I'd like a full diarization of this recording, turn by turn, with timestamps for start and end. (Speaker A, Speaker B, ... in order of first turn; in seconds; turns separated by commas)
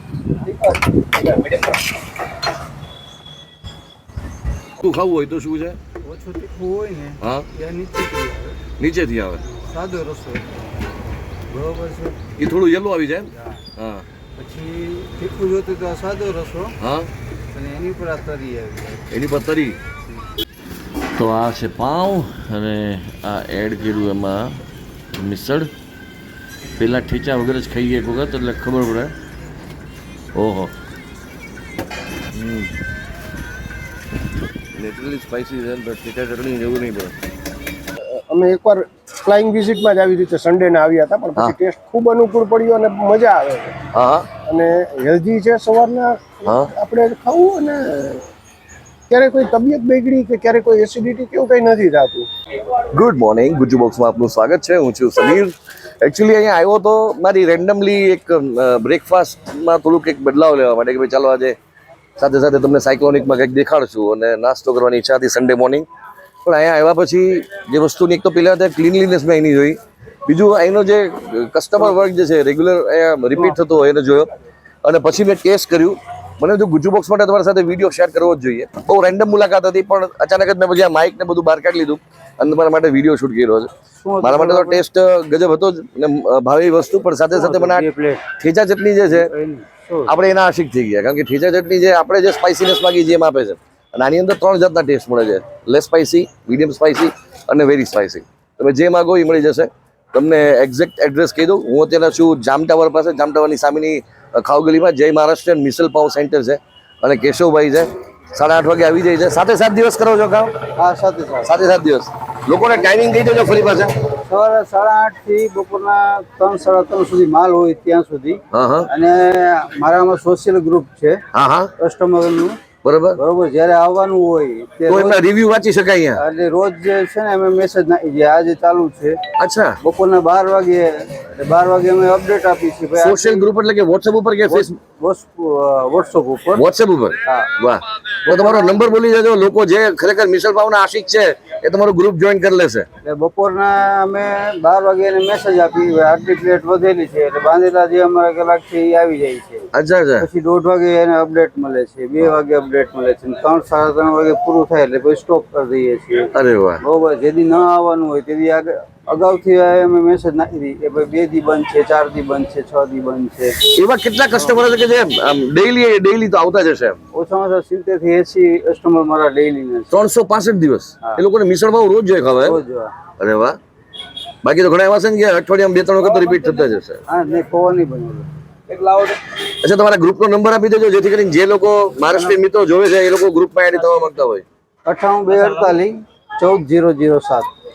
Speaker A: 0.3-1.3, Speaker B: 4.8-5.8, Speaker A: 6.0-8.6, Speaker B: 7.2-7.5, Speaker B: 8.8-9.4, Speaker A: 9.5-10.8, Speaker A: 11.5-12.3, Speaker B: 12.4-14.0, Speaker A: 13.3-13.6, Speaker A: 14.3-16.8, Speaker B: 16.8-17.1, Speaker A: 17.5-19.1, Speaker B: 19.1-19.8, Speaker B: 21.1-24.6, Speaker B: 25.1-25.7, Speaker B: 26.8-29.1, Speaker B: 30.3-30.7, Speaker B: 32.3-32.7, Speaker B: 34.7-37.1, Speaker C: 38.0-43.7, Speaker B: 43.9-44.3, Speaker C: 44.5-48.2, Speaker B: 46.5-46.7, Speaker C: 49.1-52.3, Speaker B: 52.8-61.5, Speaker B: 62.2-65.9, Speaker B: 66.4-74.3, Speaker B: 74.8-83.7, Speaker A: 84.0-84.8, Speaker B: 84.2-87.8, Speaker A: 87.3-88.2, Speaker B: 88.4-89.3, Speaker A: 89.1-90.2, Speaker B: 90.1-110.5, Speaker A: 110.8-111.6, Speaker B: 111.4-113.9, Speaker A: 114.2-121.2, Speaker B: 118.5-118.9, Speaker B: 121.3-121.7, Speaker A: 121.8-122.6, Speaker B: 122.8-123.2, Speaker A: 123.2-125.2, Speaker B: 124.9-126.2, Speaker A: 126.2-129.2, Speaker B: 129.4-129.8, Speaker A: 129.8-133.5, Speaker B: 132.9-134.7, Speaker A: 134.5-136.6, Speaker B: 136.5-142.8, Speaker A: 137.2-137.5, Speaker A: 138.2-138.9, Speaker A: 143.0-149.7, Speaker B: 149.7-150.3, Speaker A: 150.2-163.6, Speaker B: 156.3-156.8, Speaker B: 163.6-167.0, Speaker A: 167.1-169.9, Speaker B: 169.9-172.6, Speaker A: 172.4-172.9, Speaker B: 173.2-173.6, Speaker B: 174.4-177.0, Speaker A: 177.1-179.1, Speaker B: 179.5-184.4, Speaker A: 182.0-182.3, Speaker A: 184.8-187.5